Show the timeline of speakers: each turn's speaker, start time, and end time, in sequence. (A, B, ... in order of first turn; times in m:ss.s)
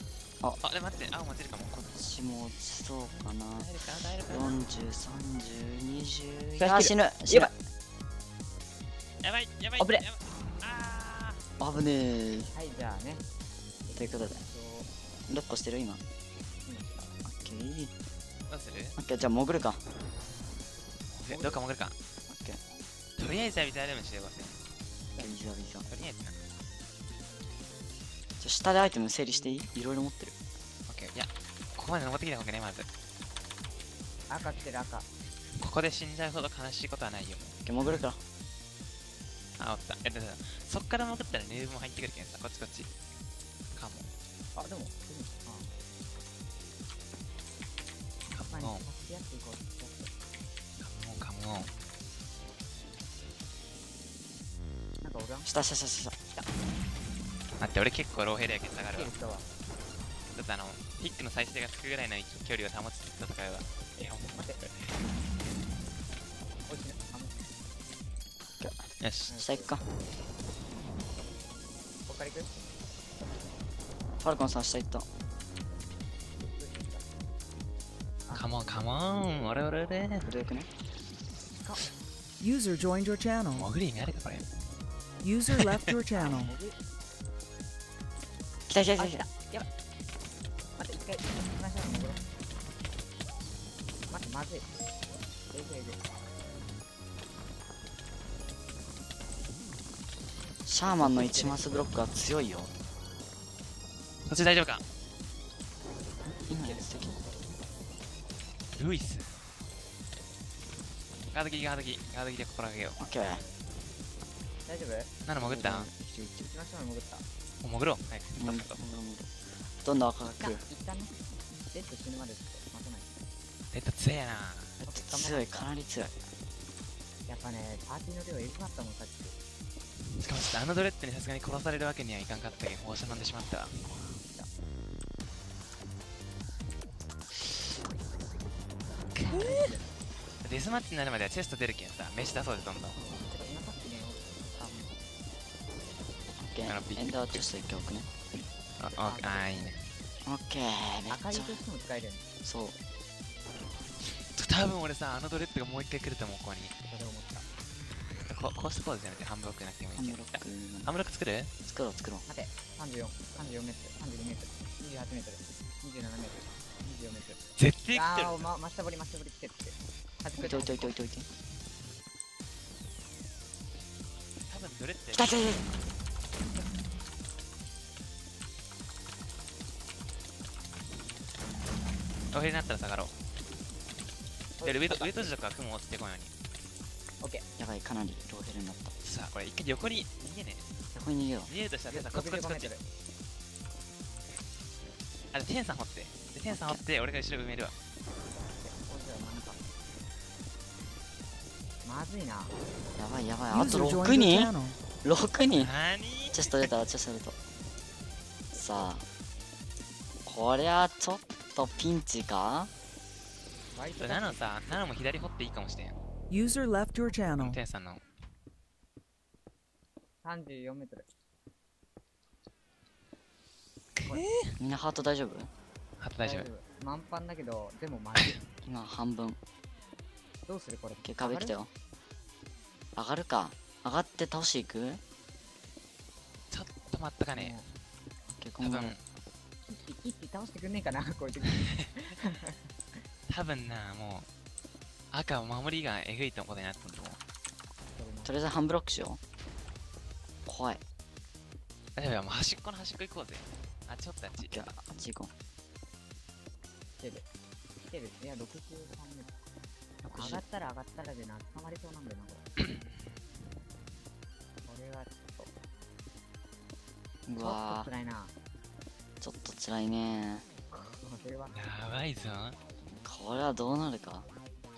0:00.6-0:01.8 A
0:01.7-0:03.7 B
0:03.6-0:04.6 A
0:04.3-0:07.5 B
0:06.6-0:07.5 C
0:09.2-0:11.4 A
0:09.8-0:10.0 C
0:11.6-0:12.5 B
0:12.5-0:13.2 C
0:13.9-0:14.9 C
0:14.0-0:14.4 B
0:15.3-0:16.0 B
0:16.6-0:17.1 C
0:17.2-0:17.9 B
0:18.5-0:19.0 A
0:19.0-0:19.8 B
0:21.1-0:22.0 A
0:21.3-0:21.6 C
0:22.3-0:22.6 B
0:23.2-0:24.6 A
0:25.2-0:25.9 B
0:25.9-0:26.4 A
0:28.4-0:30.4 B
0:30.9-0:32.9 A
0:34.3-0:35.0 C
0:35.6-0:38.0 A
0:37.6-0:38.2 B
0:39.6-0:42.9 A
0:43.7-0:44.1 A
0:44.5-0:45.7 C
0:48.3-0:48.8 A
0:48.5-0:50.1 C
0:50.8-0:51.7 A
0:55.0-0:55.5 C
0:55.5-0:56.1 B
0:57.6-0:59.1 A
0:58.9-0:59.4 C
1:00.3-1:05.0 A
1:04.3-1:04.6 C
1:06.7-1:07.4 C
1:09.0-1:09.3 A
1:09.3-1:09.8 C
1:09.4-1:09.8 B
1:12.1-1:12.5 C
1:14.2-1:15.0 B
1:16.3-1:17.1 C
1:18.3-1:20.3 A
1:20.2-1:20.7 B
1:22.4-1:23.7 D
1:23.5-1:24.5 A
1:25.2-1:26.5 D
1:25.5-1:26.0 A
1:26.1-1:26.8 C
1:28.7-1:29.2 B
1:29.0-1:29.7 C
1:30.8-1:32.2 C
1:34.1-1:34.7 C
1:35.5-1:36.0 C
1:40.6-1:42.7 B
1:40.8-1:41.8 C
1:44.2-1:44.8 A
1:46.2-1:47.2 B
1:46.5-1:46.9 C
1:48.8-1:49.4 A
1:51.3-1:53.0 A
1:53.0-1:53.4 B
1:53.1-1:53.5 C
1:54.7-1:55.1 C
1:55.3-1:55.9 A
1:55.4-1:56.3 B
1:56.4-1:57.2 C
1:57.6-1:58.8 A
1:58.4-1:59.3 B
1:59.8-2:00.6 B
2:00.3-2:03.1 C
2:03.7-2:04.8 A
2:04.8-2:05.6 C
2:04.9-2:06.2 B
2:07.3-2:09.4 C
2:10.2-2:13.9 A
2:14.2-2:14.5 C
2:19.1-2:19.8 A
2:19.1-2:19.9 C
2:20.4-2:23.0 A
2:23.0-2:25.0 C
2:26.4-2:28.1 B
2:26.6-2:27.5 A
2:28.8-2:29.8 A
2:29.0-2:29.8 C
2:30.2-2:31.6 B
2:31.1-2:32.2 C
2:32.4-2:32.8 B
2:34.0-2:36.7 A
2:36.9-2:37.5 C
2:38.3-2:41.5 A
2:40.0-2:40.9 B
2:41.6-2:42.2 B
2:42.3-2:47.4 C
2:47.6-2:48.5 A
2:48.0-2:50.9 C
2:50.4-2:51.3 B
2:54.5-2:55.6 A
2:55.2-2:55.6 B
3:02.3-3:03.1 A
3:04.6-3:05.3 C
3:04.6-3:06.3 A
3:07.6-3:08.9 B
3:09.0-3:10.8 A
3:10.9-3:11.5 B
3:11.5-3:12.7 A
3:11.9-3:12.8 C
3:15.3-3:17.7 A
3:16.5-3:16.8 B
3:18.6-3:19.6 C
3:21.8-3:22.5 C
3:23.0-3:25.7 B
3:23.5-3:24.8 D
3:25.5-3:26.7 A
3:26.3-3:27.4 B
3:28.5-3:29.0 B
3:30.2-3:32.7 B
3:33.8-3:34.8 C
3:34.0-3:36.0 A
3:36.3-3:37.6 D
3:37.4-3:38.0 A
3:40.2-3:41.0 C
3:44.0-3:44.5 A
3:44.6-3:45.5 B
3:46.0-3:46.5 A
3:46.2-3:48.4 C
3:48.2-3:48.4 A
3:48.6-3:49.4 B
3:50.5-3:51.6 C
3:51.0-3:51.7 B
3:53.0-3:55.0 B
3:56.5-3:57.6 A
3:57.3-3:57.6 C
3:58.4-3:59.0 B
3:58.6-3:59.0 A
3:59.6-4:02.6 C
4:01.4-4:01.9 A
4:03.3-4:04.3 A
4:05.1-4:07.2 A
4:08.0-4:08.3 C
4:08.2-4:09.2 B
4:10.5-4:10.8 B
4:12.0-4:14.7 A
4:14.4-4:15.3 B
4:17.0-4:17.2 C
4:17.8-4:19.3 C
4:20.1-4:20.4 B
4:20.2-4:22.4 C
4:22.6-4:23.2 A
4:24.6-4:25.5 C
4:27.2-4:27.9 B
4:27.4-4:28.3 C
4:29.2-4:30.4 B
4:30.7-4:31.5 C
4:31.5-4:32.6 A
4:32.9-4:34.3 B